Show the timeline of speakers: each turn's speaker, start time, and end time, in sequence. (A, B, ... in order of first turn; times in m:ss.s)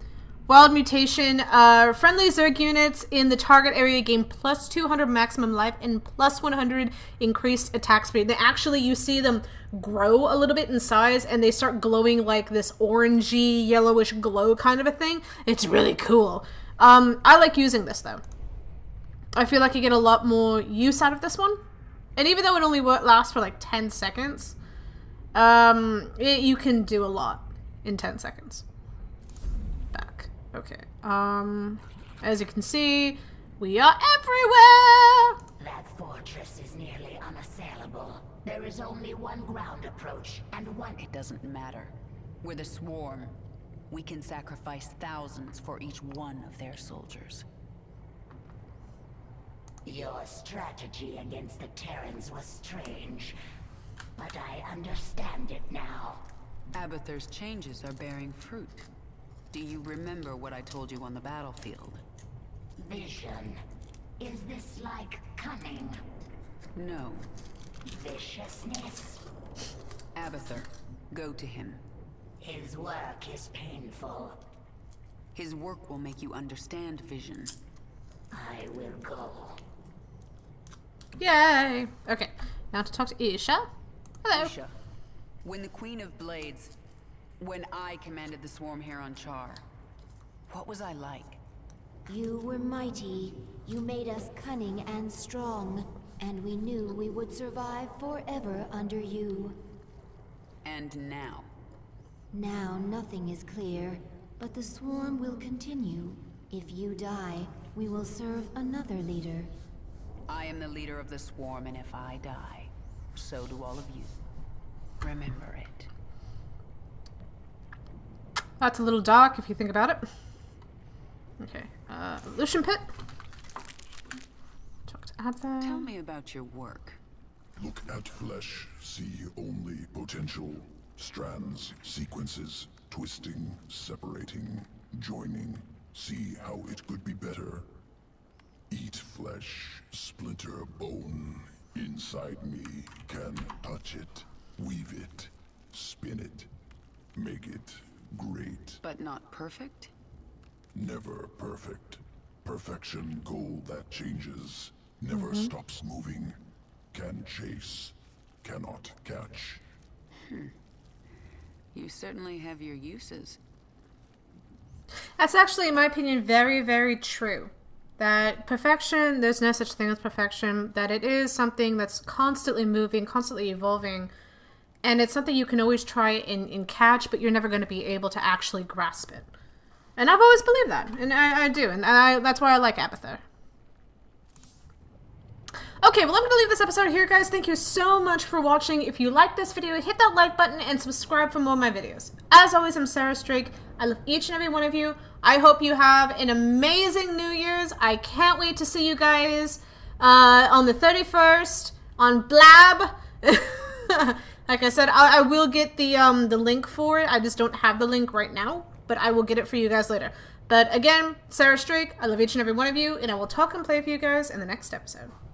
0:00.5-0:18.2 A
0:19.4-0:21.6 A
0:22.2-0:24.6 A
0:25.4-0:28.6 A
0:29.9-0:35.4 A
0:35.6-0:41.0 B
0:41.0-0:41.9 C
0:42.4-0:43.3 C
0:43.9-0:47.4 C
0:49.8-0:53.4 B
0:54.2-0:56.2 B
0:56.7-0:58.8 C
0:59.5-1:02.0 C
1:02.8-1:03.6 B
1:04.2-1:06.0 B
1:06.8-1:07.3 C
1:07.9-1:09.2 B
1:10.1-1:11.8 C
1:12.4-1:14.4 B
1:15.4-1:17.5 C
1:18.3-1:19.6 B
1:21.2-1:23.7 A
1:24.2-1:24.5 A
1:24.3-1:24.7 C
1:25.4-1:26.7 C
1:27.4-1:29.6 C
1:30.5-1:31.4 C
1:32.1-1:39.6 D
1:40.6-1:41.5 C
1:42.3-1:49.5 D
1:50.3-1:54.1 C
1:55.0-1:55.9 C
1:58.6-2:00.1 A
2:01.4-2:02.9 A
2:04.9-2:05.9 A
2:05.6-2:07.0 C
2:07.6-2:17.7 E
2:18.7-2:26.5 E
2:27.1-2:28.8 E
2:28.8-2:29.9 C
2:30.7-2:36.4 E
2:35.1-2:35.5 A
2:36.9-2:39.6 E
2:40.2-2:40.5 C
2:41.7-2:43.4 C
2:45.2-2:54.1 A
2:54.8-2:59.3 A
3:00.0-3:03.2 A
3:05.8-3:35.1 A